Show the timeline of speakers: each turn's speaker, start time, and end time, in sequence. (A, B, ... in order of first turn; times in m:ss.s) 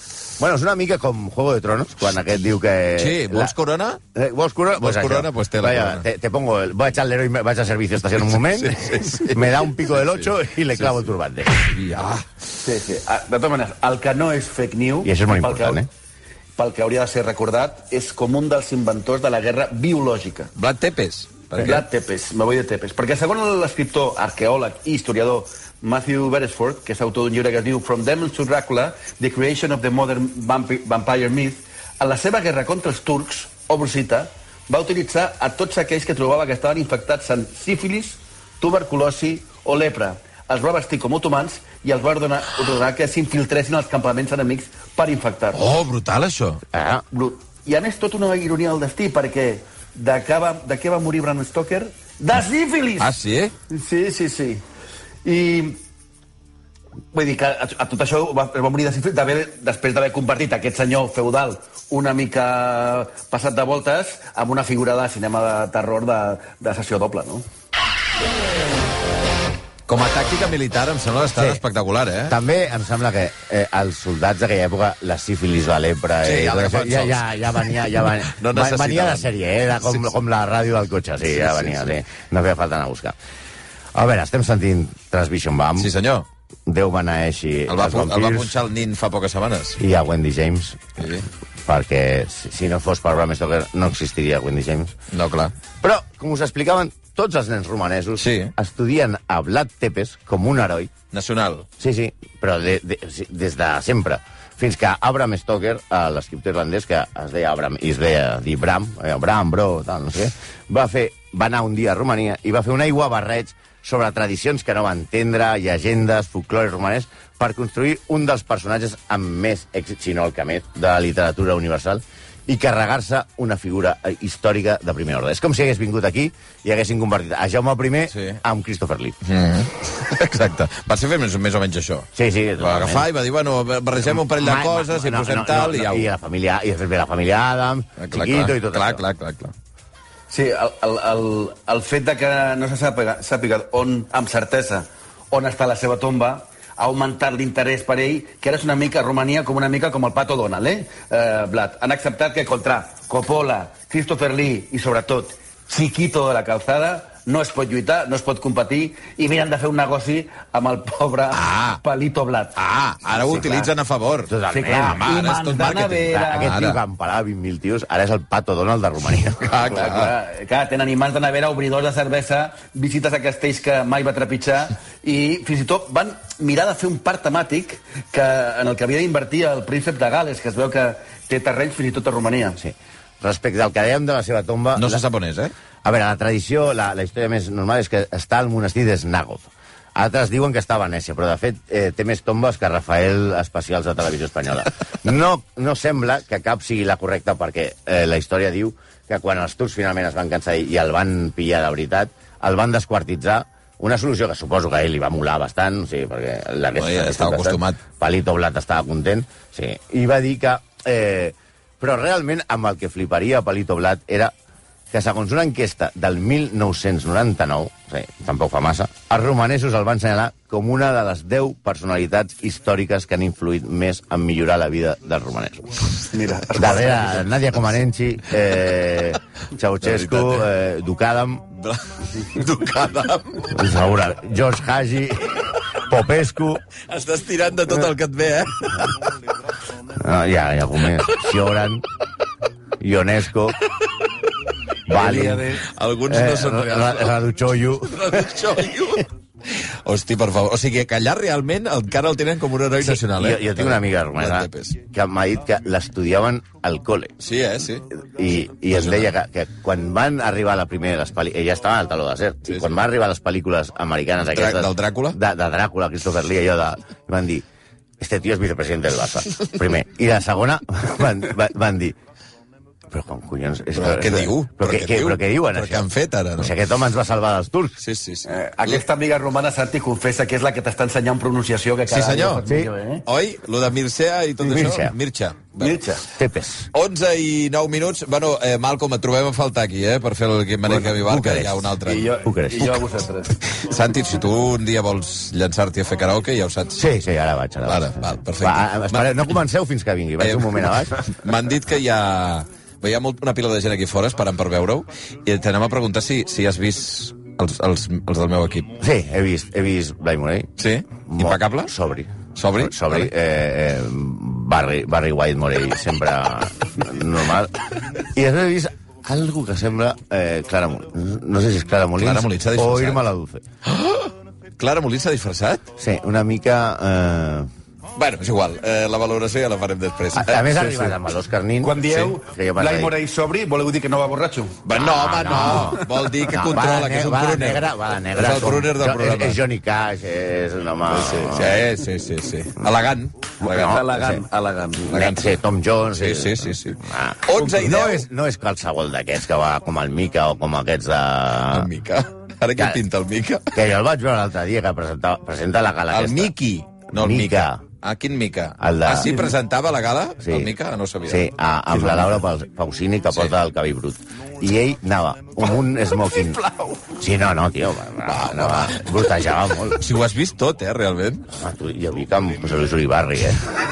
0:00.4-0:03.5 A
0:03.0-0:04.0 B
0:04.1-0:11.6 A
0:04.8-0:06.0 B
0:08.2-0:11.0 B
0:11.6-0:12.2 B
0:12.6-0:15.8 C
0:15.0-0:15.9 A
0:16.6-0:20.5 C
0:20.6-0:21.8 B
0:21.6-0:45.6 C
0:45.5-0:46.6 B
0:46.7-0:47.0 A
0:47.1-0:53.2 C
0:53.0-0:53.5 B
0:53.7-0:54.6 C
0:55.2-0:55.8 C
0:57.1-1:07.4 C
1:09.9-1:12.3 B
1:11.4-1:11.6 A
1:12.3-1:23.1 A
1:16.2-1:19.3 B
1:21.3-1:22.0 B
1:23.9-1:25.9 A
1:25.8-1:26.2 B
1:26.6-1:28.6 A
1:27.7-1:29.8 B
1:29.8-1:30.8 A
1:31.0-1:31.3 B
1:31.6-1:34.9 A
1:35.1-1:35.5 B
1:35.8-1:40.9 A
1:38.2-1:38.5 B
1:41.1-1:41.7 B
1:41.8-2:09.2 A
2:08.1-2:08.4 B
2:09.2-2:16.1 B
2:12.1-2:13.0 A
2:14.0-2:19.0 A
2:18.0-2:19.5 B
2:20.3-2:42.6 C
2:41.3-2:41.8 B
2:42.6-2:46.8 B
2:43.1-2:43.7 C
2:44.3-2:45.0 A
2:44.5-2:46.5 C
2:46.2-2:49.7 A
2:49.4-2:50.1 B
2:49.6-3:02.6 C
3:02.6-3:05.0 A
3:04.8-3:05.5 B
3:05.8-3:34.3 A
3:26.8-3:27.8 B
3:34.9-3:45.8 A
3:46.1-3:47.3 C
3:46.5-3:51.5 A
3:49.8-3:50.5 B
3:51.5-3:53.6 B
3:53.4-3:56.6 A
3:56.9-3:59.0 B
3:59.9-4:01.8 A
4:02.8-4:03.6 A
4:04.8-4:05.5 A
4:04.9-4:05.6 C
4:05.6-4:07.1 B
4:06.1-4:08.4 A
4:07.9-4:09.1 B
4:09.8-4:14.8 B
4:12.8-4:17.1 A
4:17.2-4:17.8 B
4:17.9-4:27.4 A
4:18.7-4:19.1 B
4:24.3-4:25.2 B
4:28.0-4:32.0 A
4:32.9-4:37.8 A
4:33.8-4:36.5 B
4:37.8-4:38.8 B
4:38.2-4:43.0 C
4:41.9-4:42.4 B
4:43.0-4:45.8 B
4:44.4-4:44.9 A
4:45.6-4:46.0 C
4:46.1-4:46.7 A
4:46.7-4:52.2 B
4:50.7-4:52.8 A
4:51.8-4:53.4 C
4:53.4-4:56.8 B
4:56.8-5:01.3 A
4:57.6-4:59.2 B
5:00.2-5:08.8 B
5:08.8-5:10.5 A
5:10.6-5:11.7 B
5:11.0-5:23.4 A
5:12.4-5:13.1 B
5:22.0-5:23.0 B
5:23.6-5:25.6 B
5:25.8-5:27.5 A
5:28.0-5:30.7 B
5:30.1-5:32.9 A
5:31.6-5:34.6 C
5:34.6-5:39.4 B
5:34.7-5:41.6 A
5:40.9-5:43.8 B
5:43.4-5:44.2 A
5:43.5-5:45.1 C
5:44.8-5:51.7 A
5:44.9-5:45.4 B
5:45.9-5:48.0 B
5:51.5-5:53.6 B
5:53.5-5:56.3 A
5:55.9-6:02.2 B
5:56.9-5:57.6 A
5:58.6-5:59.3 A
6:00.2-6:00.5 A
6:01.1-6:09.8 A
6:06.1-6:06.9 B
6:08.1-6:11.3 B
6:11.3-6:13.4 A